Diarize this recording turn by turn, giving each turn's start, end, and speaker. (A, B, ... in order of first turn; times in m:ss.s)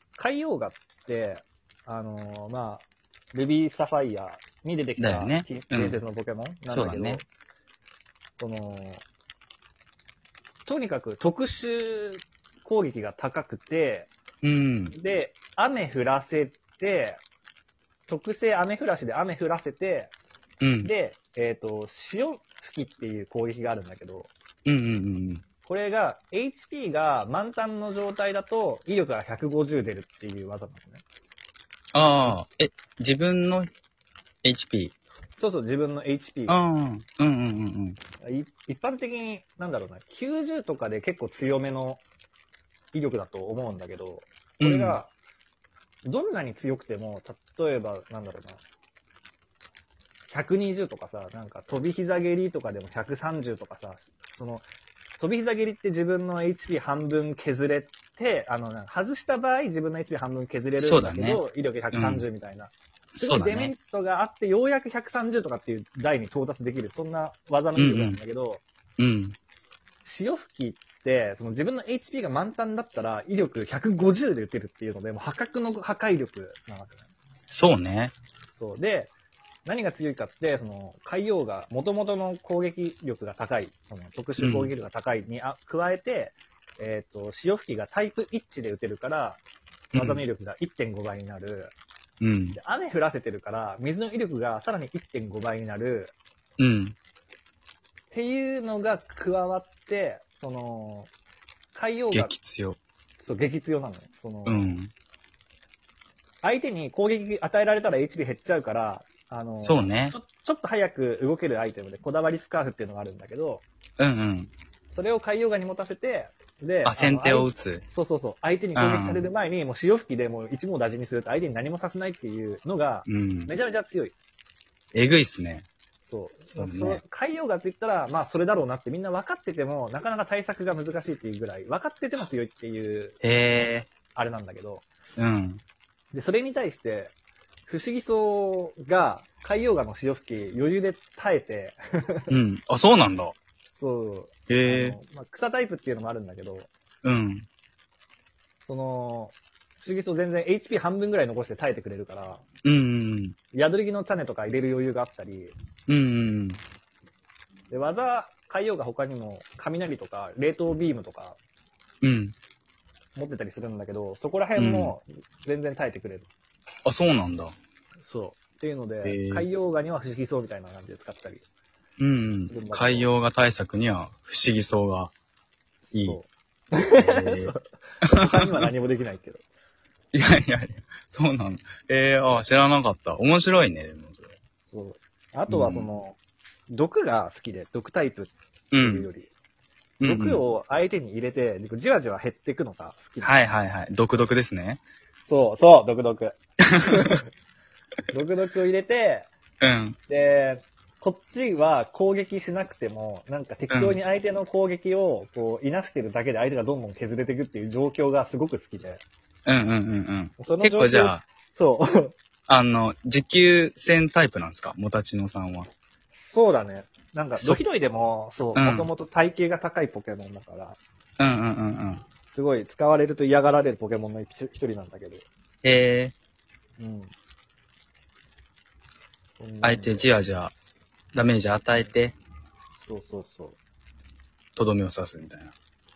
0:00.2-0:07.2 A
0:05.0-0:06.0 B
0:06.7-0:07.2 B
0:08.4-0:09.0 A
0:10.7-0:14.1 A
0:14.4-0:15.0 B
0:14.9-0:17.2 A
0:18.1-0:20.1 A
0:20.6-0:20.9 B
0:20.8-0:24.3 A
0:24.7-0:25.4 B
0:25.6-0:31.0 A
0:31.9-0:33.7 B
0:32.1-0:32.4 A
0:34.4-0:34.9 B
0:35.4-0:36.6 A
0:36.5-0:38.0 B
0:38.2-0:42.0 A
0:42.9-0:45.1 A
0:44.6-0:45.0 B
0:46.0-0:48.6 A
0:50.3-0:54.6 A
0:55.2-1:08.6 A
1:00.8-1:02.2 B
1:03.2-1:03.7 B
1:07.8-1:08.2 B
1:09.0-1:09.4 B
1:10.0-1:17.0 A
1:17.5-1:18.2 B
1:18.5-1:19.1 A
1:19.7-1:29.4 A
1:24.4-1:24.7 B
1:29.9-1:31.7 A
1:29.9-1:30.2 B
1:32.2-1:32.6 B
1:32.5-1:36.1 A
1:36.6-1:37.0 B
1:38.1-1:41.1 A
1:41.7-1:42.3 A
1:42.1-1:42.8 B
1:43.2-1:44.7 A
1:44.5-1:44.9 B
1:46.4-1:53.6 A
1:49.6-1:50.2 B
1:54.0-1:54.5 B
1:54.9-2:04.2 A
1:56.8-1:57.8 B
1:58.7-1:59.2 B
2:03.0-2:03.5 B
2:04.9-2:05.7 B
2:06.0-2:13.2 A
2:06.5-2:07.0 B
2:13.2-2:13.9 B
2:14.1-2:14.9 A
2:15.2-2:15.6 B
2:16.1-2:17.1 A
2:17.7-2:22.3 A
2:22.3-2:23.3 B
2:23.8-2:26.7 A
2:24.5-2:25.0 B
2:27.0-2:27.5 B
2:28.7-2:32.4 A
2:32.6-2:33.4 B
2:33.5-2:35.5 A
2:35.9-2:36.6 B
2:37.7-2:41.4 A
2:42.0-2:42.3 B
2:43.2-2:46.3 A
2:44.6-2:45.0 B
2:46.8-2:47.5 B
2:48.0-2:51.4 A
2:49.0-2:49.5 B
2:52.0-2:55.1 B
2:52.5-2:53.1 A
2:55.8-2:59.4 A
2:55.9-2:56.2 B
2:57.0-2:57.5 B
2:58.1-2:58.6 B
3:00.1-3:04.3 B
3:04.7-3:06.2 A
3:05.5-3:05.9 B
3:06.7-3:09.3 A
3:08.7-3:09.1 B
3:10.0-3:10.4 B
3:10.0-3:13.4 A
3:13.2-3:14.8 B
3:15.2-3:17.2 A
3:16.7-3:17.1 B
3:18.1-3:19.3 A
3:19.6-3:20.0 B
3:20.1-3:29.0 A
3:23.7-3:24.0 B
3:29.5-3:31.2 B
3:30.4-3:32.1 A
3:32.5-3:35.7 B
3:36.1-3:40.8 A
3:37.4-3:37.6 B
3:38.5-3:38.9 B
3:41.2-3:42.0 B
3:42.3-3:45.3 A
3:45.6-3:46.2 B
3:46.8-3:47.1 A
3:49.4-3:50.1 A
3:49.6-3:50.5 B
3:51.1-3:52.2 B
3:52.8-3:53.6 A
3:54.6-3:55.5 B